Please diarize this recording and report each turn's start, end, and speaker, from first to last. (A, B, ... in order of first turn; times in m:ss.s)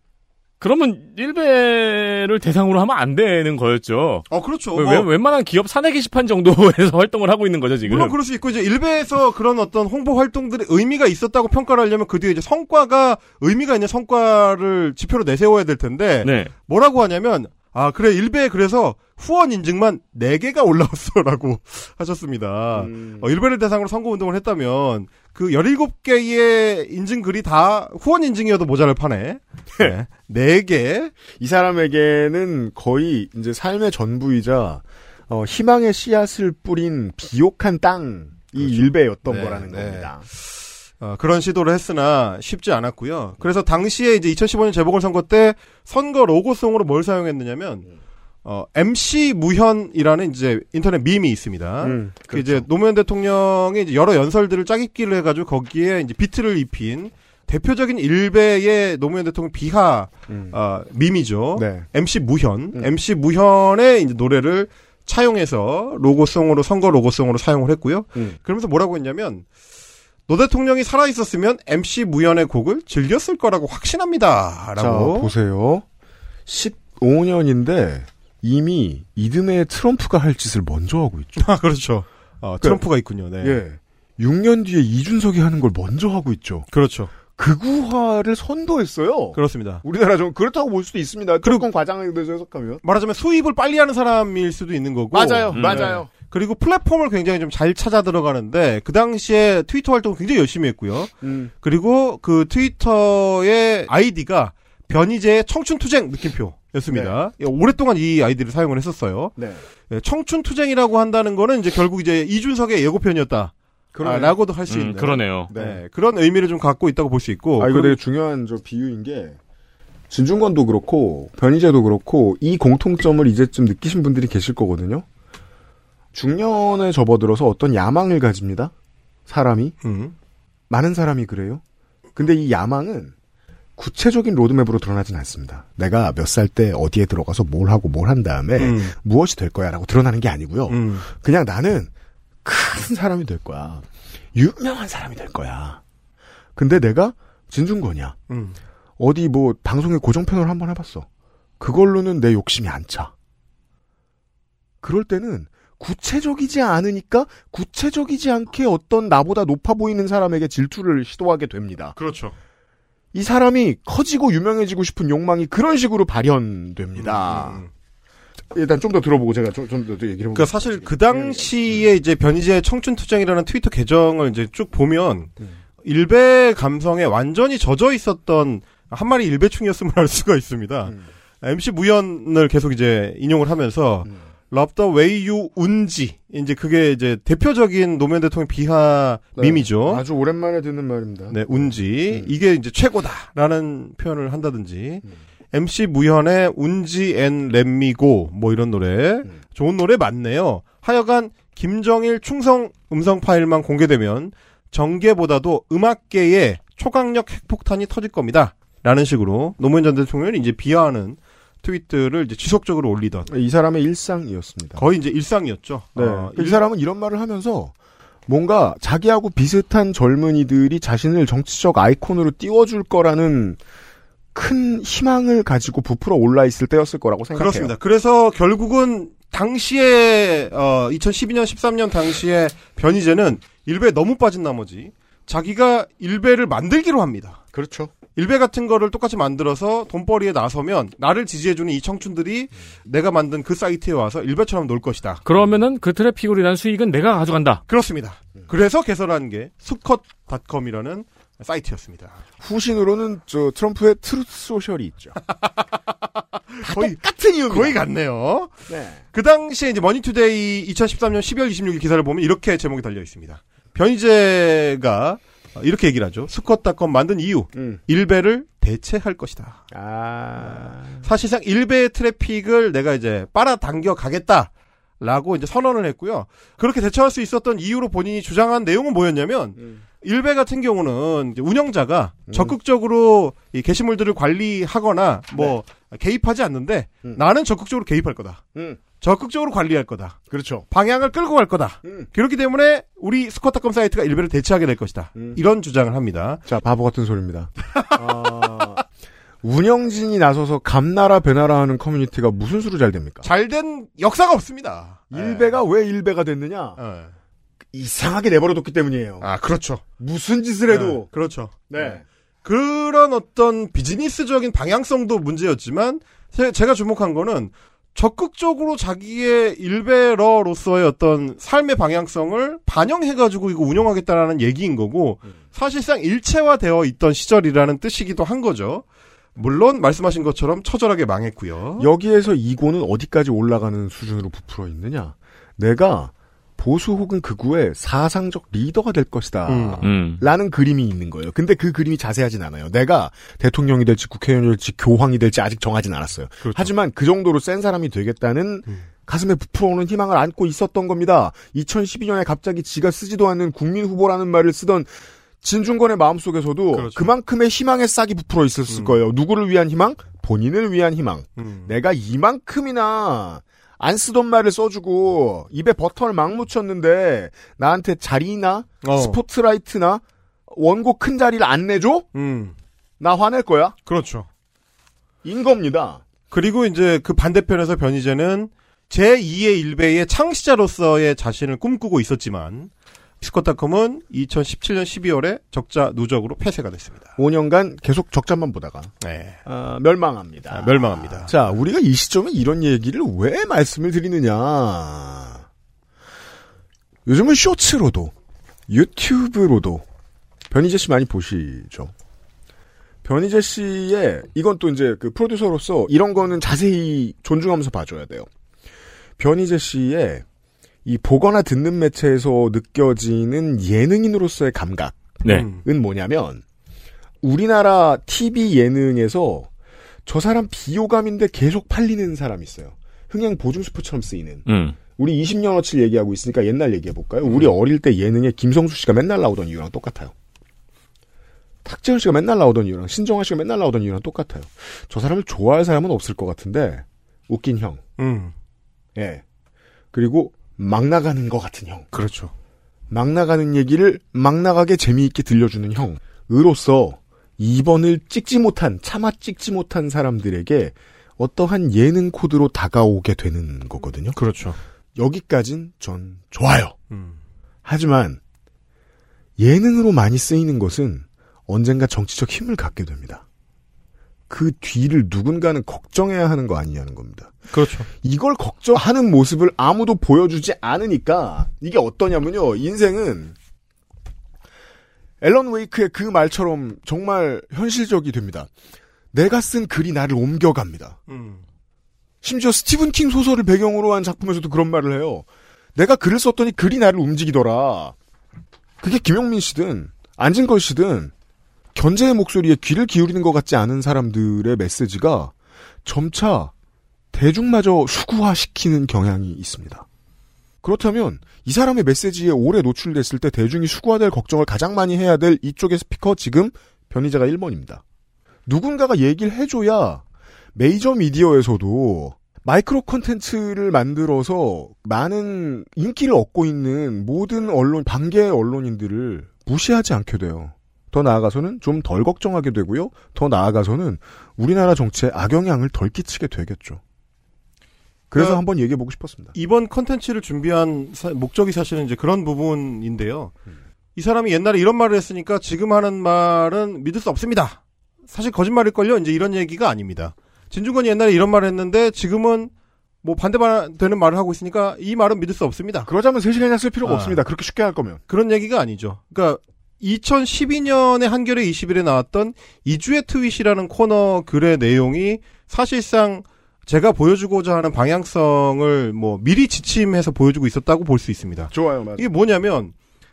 0:00.6-0:08.2 A
0:04.3-0:05.1 B
0:07.9-0:31.1 B
0:16.2-0:16.5 A
0:22.7-0:23.3 C
0:31.3-0:40.3 C
0:38.6-0:47.9 B
0:48.4-1:09.4 B
0:51.8-0:52.7 C
1:00.3-1:00.6 C
1:01.6-1:01.9 C
1:10.3-1:15.3 B
1:14.8-1:15.8 C
1:16.5-1:21.5 C
1:21.4-1:23.6 B
1:23.4-1:26.7 C
1:26.7-1:27.1 B
1:27.3-1:32.8 C
1:29.4-1:29.8 B
1:32.8-1:49.3 B
1:35.1-1:36.1 C
1:35.5-1:35.9 A
1:41.2-1:41.5 C
1:46.9-1:47.2 C
1:49.4-1:49.6 C
1:49.9-1:58.0 B
1:53.9-1:54.4 C
1:54.7-1:55.5 A
1:55.5-1:55.8 C
1:57.6-1:59.4 C
2:00.1-2:05.1 C
2:06.1-2:08.7 C
2:09.3-2:09.8 C
2:09.8-2:10.1 B
2:10.7-2:11.6 C
2:12.2-2:13.1 C
2:13.8-2:21.9 C
2:18.6-2:18.9 B
2:20.7-2:21.1 B
2:22.4-2:25.8 C
2:26.6-2:28.2 C
2:28.3-2:28.6 B
2:29.0-2:31.1 C
2:31.6-2:33.1 C
2:34.8-2:42.0 C
2:42.0-2:42.4 B
2:43.1-2:47.6 C
2:47.0-2:47.7 B
2:48.5-2:51.8 C
2:50.3-2:55.3 B
2:55.8-3:10.0 B
3:09.4-3:12.3 C
3:11.3-3:33.3 B
3:33.3-3:34.9 C
3:34.8-3:36.6 B
3:36.0-3:37.8 C
3:38.3-3:43.6 C
3:44.3-3:47.7 C
3:47.4-3:57.4 B
3:57.5-3:57.9 C
3:58.2-4:05.2 B
4:05.2-4:07.6 A
4:07.7-4:12.2 B
4:12.4-4:15.2 C
4:16.5-4:18.6 B
4:16.6-4:17.8 C
4:18.7-4:19.0 C
4:19.1-4:29.6 B
4:27.5-4:27.8 C
4:29.7-4:31.1 C
4:31.0-4:34.5 B
4:35.0-4:48.4 B
4:42.3-4:42.6 C
4:49.0-4:50.2 B
4:50.3-4:50.7 C
4:50.7-4:56.4 B
4:56.4-4:58.8 C
4:59.4-5:03.3 C
5:03.2-5:05.6 B
5:05.1-5:06.8 C
5:06.8-5:07.1 B
5:07.7-5:09.3 C
5:09.2-5:09.8 B
5:10.0-5:11.1 C
5:10.7-5:28.8 B
5:11.7-5:12.0 C
5:29.4-5:31.9 B
5:31.8-6:12.1 C
5:39.5-5:39.8 B
5:39.8-5:40.2 A
5:46.4-5:46.7 B
5:56.7-5:57.1 B
5:58.7-5:59.0 B
6:01.4-6:01.7 B
6:08.8-6:09.2 B
6:12.1-6:12.6 B
6:13.0-6:13.8 C
6:13.9-6:14.3 B
6:15.2-6:16.0 C
6:16.3-6:22.7 B
6:23.2-6:27.1 B
6:27.2-6:28.9 C
6:29.0-6:29.4 B
6:29.4-6:35.4 C
6:30.5-6:31.6 B
6:37.1-6:38.1 C
6:38.7-6:39.8 C
6:40.5-6:41.9 C
6:43.0-6:48.3 C
6:49.2-6:50.2 C
6:50.8-6:56.4 C
6:55.3-6:55.6 B
6:57.2-6:59.5 C
7:00.1-7:10.1 C
7:04.5-7:04.8 A
7:11.6-7:17.8 C
7:18.0-7:18.3 B
7:19.0-7:19.2 C
7:19.9-7:21.9 C
7:21.9-7:22.3 B
7:22.9-7:34.2 C
7:34.2-7:34.6 B
7:35.0-7:36.8 C
7:36.9-7:37.2 B
7:37.6-7:38.2 C
7:39.4-7:43.2 C
7:44.3-7:47.4 C
7:47.5-7:47.9 B
7:48.0-7:53.4 C
7:55.2-7:58.5 C
7:59.1-8:01.0 C
8:01.1-8:01.4 B
8:02.2-8:08.0 C
8:08.8-8:11.1 C
8:11.7-8:15.3 C
8:15.8-8:16.5 C
8:17.1-8:19.9 C
8:20.6-8:27.8 C
8:28.5-8:30.0 C
8:30.6-8:46.8 C
8:48.1-8:49.3 C
8:48.1-8:48.4 B
8:49.3-8:53.3 B
8:54.0-9:02.5 B
9:03.0-9:05.9 B
9:05.9-9:08.0 C
9:06.8-9:07.2 B
9:08.1-9:22.7 B
9:21.5-9:22.1 C